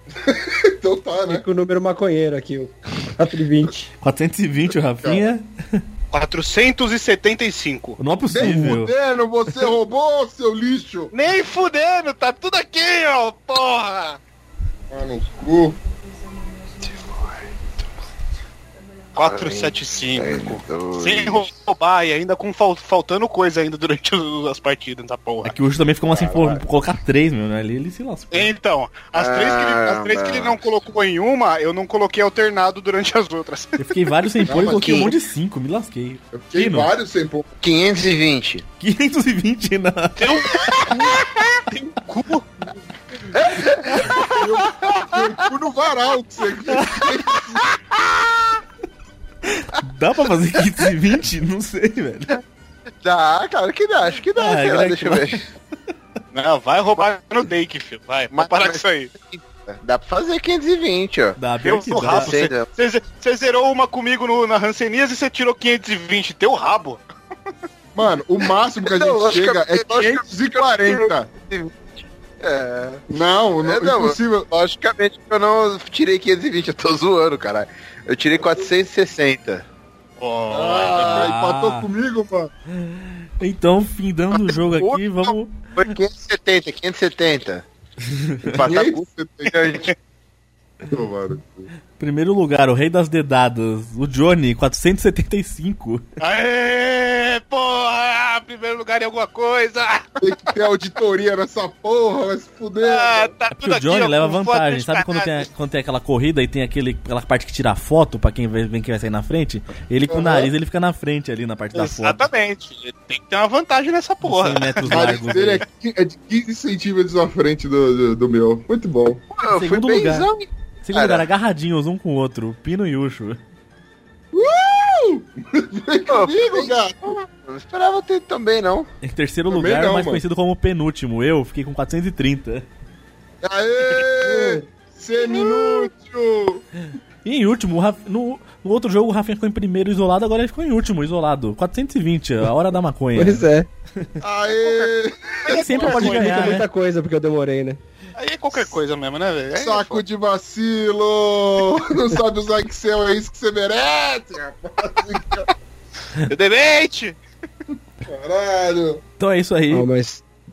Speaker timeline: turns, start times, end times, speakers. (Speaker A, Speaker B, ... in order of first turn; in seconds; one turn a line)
Speaker A: 0.2-1.4
Speaker B: 1.2-3.9
Speaker C: 4.0-5.8
Speaker A: 4.8-5.3
Speaker D: 6.1-8.0
Speaker C: 8.0-8.9
Speaker A: 8.3-11.1
Speaker D: 11.1-14.2
Speaker A: 14.9-15.8
Speaker E: 17.0-17.4
Speaker D: 19.1-25.6
Speaker E: 19.2-21.5
Speaker C: 25.4-28.5
Speaker E: 26.1-26.6
Speaker D: 28.3-33.9
Speaker E: 29.1-30.6
Speaker C: 33.8-36.9
Speaker A: 34.5-35.1
Speaker E: 34.5-35.1
Speaker A: 36.3-37.5
Speaker E: 37.6-38.6
Speaker C: 38.8-40.3
Speaker D: 40.2-42.5
Speaker E: 43.3-44.4
Speaker C: 43.9-44.2
Speaker A: 44.3-47.7
Speaker C: 46.7-47.1
Speaker E: 47.7-48.6
Speaker C: 49.5-52.3
Speaker E: 53.0-55.5
Speaker C: 54.4-55.5
Speaker D: 56.3-59.1
Speaker E: 58.3-61.4
Speaker C: 61.4-62.3
Speaker D: 61.6-67.0
Speaker E: 61.9-62.7
Speaker A: 68.0-71.3
Speaker E: 68.8-73.1
Speaker A: 73.1-74.5
Speaker E: 73.6-79.7
Speaker D: 80.2-81.3
Speaker A: 80.5-82.5
Speaker C: 81.0-81.9
Speaker C: 82.7-85.9
Speaker E: 84.8-87.7
Speaker C: 88.0-88.6
Speaker E: 88.5-89.9
Speaker A: 88.6-89.8
Speaker A: 90.9-91.7
Speaker C: 92.0-96.0
Speaker D: 96.2-100.2
Speaker A: 100.2-103.3
Speaker D: 102.8-105.5
Speaker C: 103.5-112.3
Speaker A: 110.1-110.5
Speaker D: 111.8-115.3
Speaker C: 114.2-115.7
Speaker A: 114.8-119.2
Speaker E: 119.3-121.3
Speaker C: 119.5-120.3
Speaker C: 120.8-123.4
Speaker A: 124.3-127.2
Speaker E: 126.1-128.9
Speaker C: 129.0-132.7
Speaker A: 129.5-130.2
Speaker A: 133.4-136.7
Speaker E: 135.3-135.9
Speaker C: 137.2-143.5
Speaker B: 143.2-143.7
Speaker A: 144.2-146.0
Speaker D: 145.4-146.6
Speaker C: 145.5-146.7
Speaker B: 145.8-147.8
Speaker D: 148.2-150.0
Speaker A: 149.5-155.5
Speaker D: 156.3-157.2
Speaker A: 158.0-159.0
Speaker C: 159.2-159.9
Speaker B: 159.7-160.2